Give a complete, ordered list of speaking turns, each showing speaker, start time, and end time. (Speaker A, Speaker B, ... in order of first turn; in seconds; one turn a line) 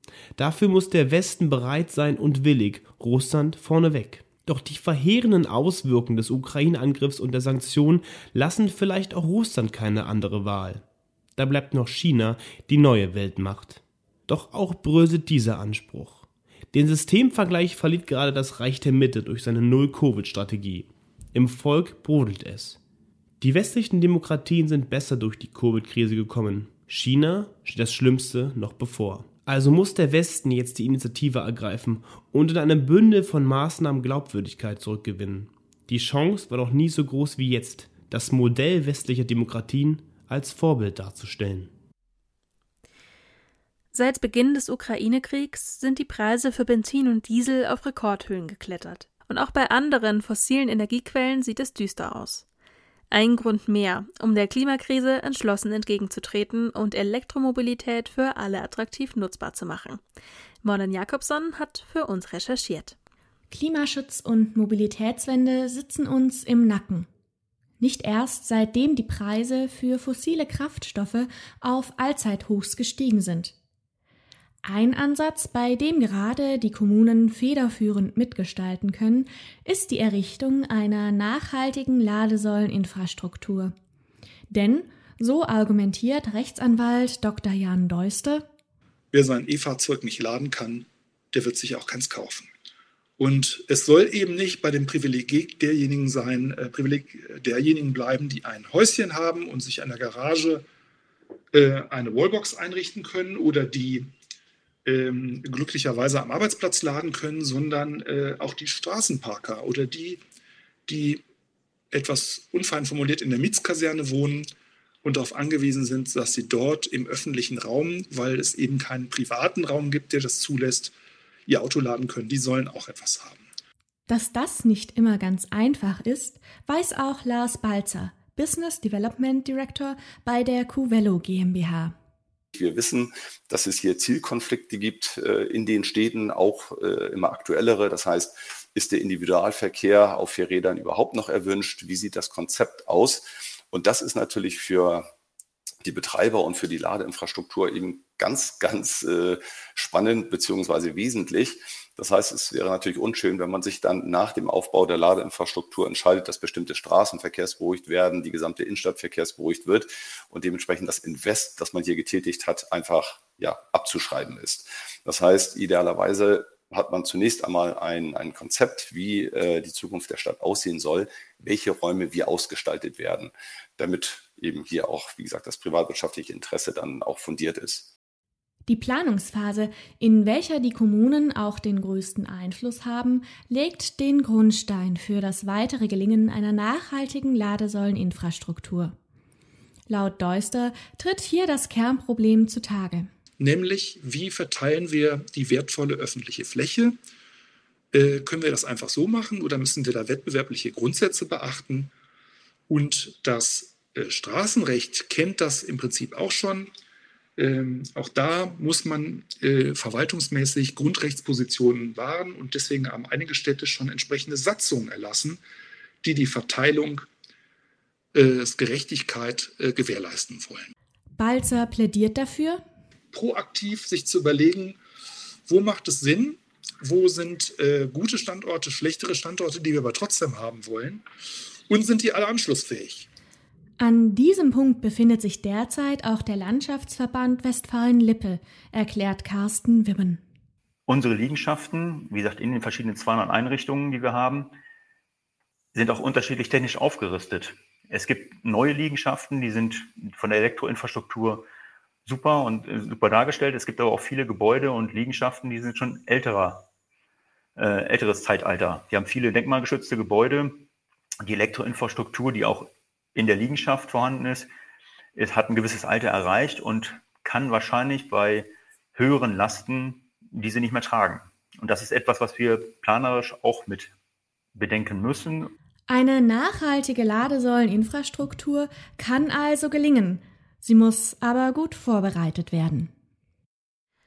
Speaker A: 0.4-10.8
Speaker A: 11.4-22.8
Speaker A: 23.4-41.7
Speaker B: 43.9-52.5
Speaker B: 53.1-60.0
Speaker B: 60.6-63.0
Speaker C: 63.5-67.1
Speaker C: 67.8-73.5
Speaker C: 74.6-83.7
Speaker C: 84.5-88.5
Speaker D: 89.1-92.5
Speaker D: 93.2-100.7
Speaker D: 101.5-104.1
Speaker D: 104.8-110.2
Speaker D: 110.9-111.2
Speaker D: 111.9-114.5
Speaker D: 115.0-120.9
Speaker D: 121.5-123.4
Speaker C: 124.1-131.9
Speaker E: 132.5-145.1
Speaker E: 145.8-177.9
Speaker C: 178.7-188.9
Speaker C: 189.9-193.1
Speaker D: 193.4-197.0
Speaker D: 197.9-201.9
Speaker D: 202.7-206.7
Speaker D: 207.4-215.4
Speaker D: 216.0-217.1
Speaker D: 218.1-220.7
Speaker C: 221.2-222.6
Speaker D: 223.1-224.8
Speaker D: 225.5-231.0
Speaker D: 231.7-233.1
Speaker C: 233.8-240.2
Speaker F: 240.9-244.5
Speaker F: 245.7-251.4
Speaker F: 252.1-256.6
Speaker F: 257.6-260.7
Speaker F: 261.2-264.5
Speaker F: 265.1-273.9
Speaker F: 274.6-275.5
Speaker C: 275.9-282.9